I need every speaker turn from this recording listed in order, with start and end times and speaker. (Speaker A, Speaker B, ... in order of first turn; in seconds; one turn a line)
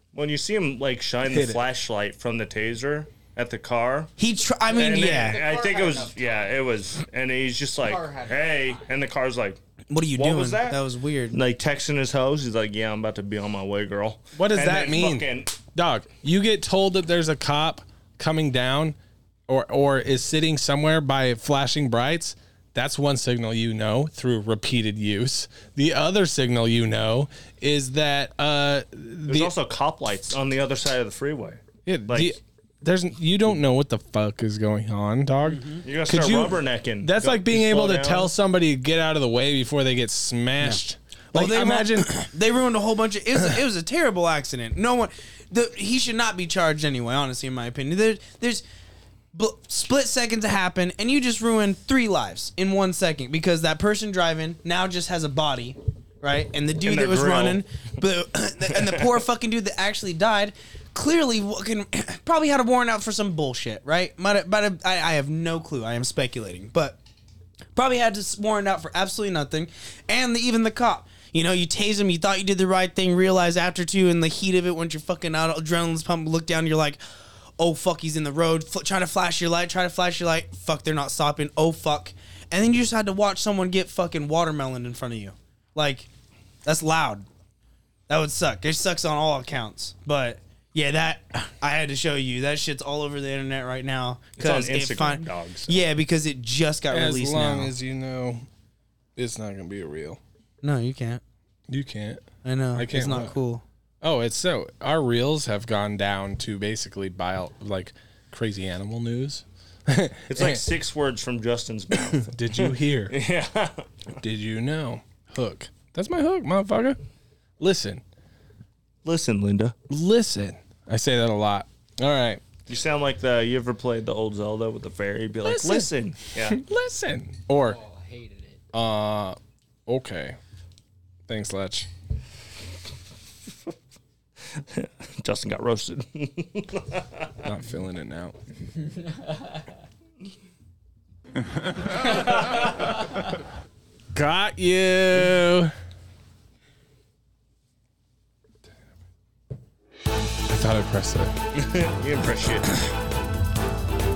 Speaker A: 0.1-4.1
Speaker B: 1.2-1.6
Speaker C: 4.2-5.5
Speaker D: 4.7-6.9
Speaker A: 4.7-9.6
Speaker D: 7.8-9.1
Speaker C: 9.9-11.4
Speaker A: 10.1-10.8
Speaker A: 11.3-15.6
Speaker B: 14.3-19.0
Speaker B: 19.5-29.5
Speaker A: 29.3-32.4
Speaker B: 31.9-42.2
Speaker C: 35.5-35.8
Speaker A: 35.8-38.3
Speaker C: 41.3-48.6
Speaker C: 49.3-67.0
Speaker A: 56.8-57.6
Speaker A: 58.8-59.0
Speaker C: 67.8-77.0
Speaker C: 77.6-86.1
Speaker C: 86.7-87.3
Speaker C: 88.1-97.8
Speaker A: 94.4-95.8
Speaker B: 96.9-98.5
Speaker B: 99.2-100.2
Speaker C: 100.6-101.2
Speaker B: 101.7-103.3
Speaker C: 102.4-103.6
Speaker B: 104.0-110.7
Speaker A: 110.3-114.0
Speaker B: 112.1-113.1
Speaker B: 114.2-117.0
Speaker B: 117.6-118.0
Speaker A: 119.0-119.8
Speaker B: 119.9-122.4
Speaker A: 122.7-126.6
Speaker B: 125.4-127.8
Speaker D: 127.6-128.6
Speaker B: 128.7-130.4
Speaker B: 131.3-131.9
Speaker A: 134.6-137.4
Speaker B: 137.4-138.4
Speaker D: 138.8-139.7
Speaker D: 141.9-143.0
Speaker B: 144.1-145.7
Speaker B: 150.5-151.4
Speaker A: 151.6-152.8